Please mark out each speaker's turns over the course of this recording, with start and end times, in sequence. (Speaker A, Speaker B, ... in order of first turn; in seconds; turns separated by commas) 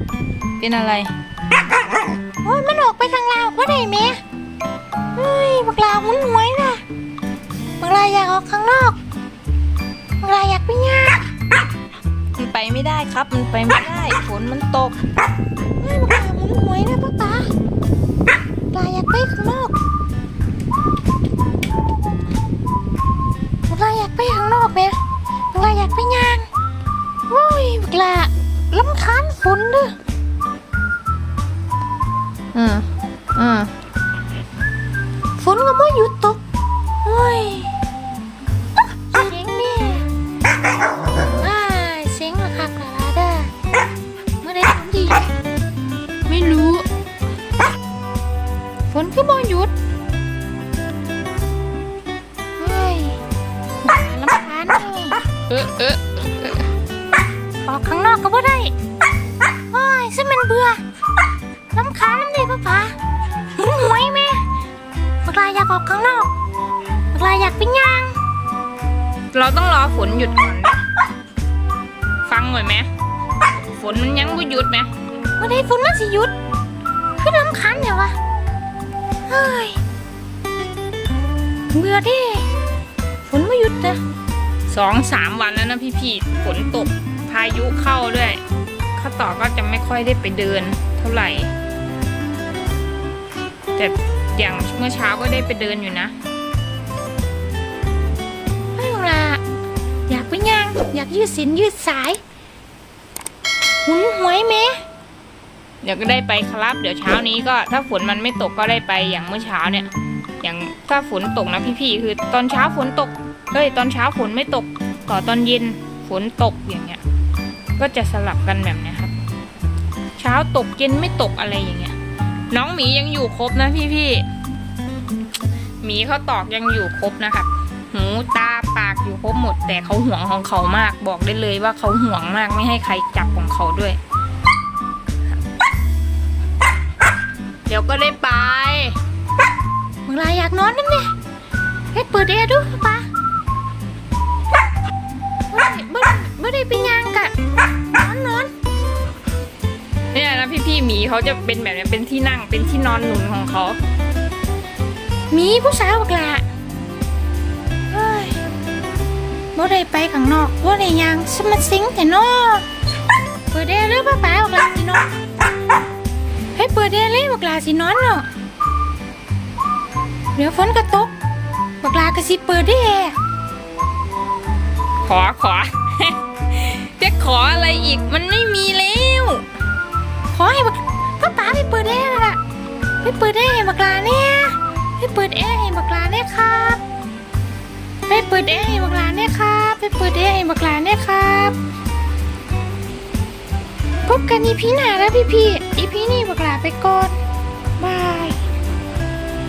Speaker A: 0.6-1.1, Speaker B: 2.4-4.2, Speaker B: 5.2-6.8, Speaker B: 7.8-9.0, Speaker B: 10.2-11.2, Speaker A: 12.4-15.0, Speaker B: 15.8-17.5, Speaker B: 18.7-19.8, Speaker B: 23.7-25.0, Speaker B: 25.5-26.5, Speaker B: 27.3-30.0, Speaker A: 32.5-33.7, Speaker B: 35.4-36.4, Speaker B: 37.0-37.7, Speaker B: 39.1-40.1, Speaker B: 41.3-43.5, Speaker B: 44.4-45.3, Speaker B: 46.3-46.9, Speaker B: 48.9-49.7, Speaker B: 52.6-53.2, Speaker B: 53.8-55.2, Speaker A: 55.5-56.6, Speaker B: 57.6-58.7, Speaker B: 59.7-60.8, Speaker B: 61.7-63.0, Speaker B: 63.5-64.5, Speaker B: 65.2-66.3, Speaker B: 67.1-68.2, Speaker A: 69.3-70.9, Speaker A: 72.2-72.9, Speaker A: 73.6-74.9, Speaker B: 75.4-76.3, Speaker B: 77.2-78.2, Speaker B: 79.3-79.8, Speaker B: 81.7-82.5, Speaker B: 83.3-84.0, Speaker A: 84.7-88.4, Speaker A: 89.0-91.5, Speaker A: 93.8-96.1, Speaker B: 98.8-99.4, Speaker B: 100.1-102.2, Speaker B: 103.8-104.8, Speaker A: 105.8-117.0, Speaker A: 117.8-119.1, Speaker A: 120.2-122.0, Speaker A: 122.5-124.3, Speaker A: 125.8-134.0, Speaker A: 137.7-139.0, Speaker B: 140.1-141.1, Speaker B: 141.9-143.1, Speaker B: 145.5-147.3, Speaker B: 147.9-148.5, Speaker A: 150.1-153.8, Speaker B: 155.3-156.4, Speaker B: 157.9-158.4, Speaker B: 159.5-162.7, Speaker B: 163.5-165.1, Speaker B: 166.6-168.3, Speaker B: 170.3-171.1, Speaker B: 171.8-173.2, Speaker A: 175.1-179.4, Speaker B: 180.3-182.4, Speaker B: 183.0-186.8, Speaker B: 188.1-191.6, Speaker B: 194.1-197.2, Speaker B: 197.8-198.4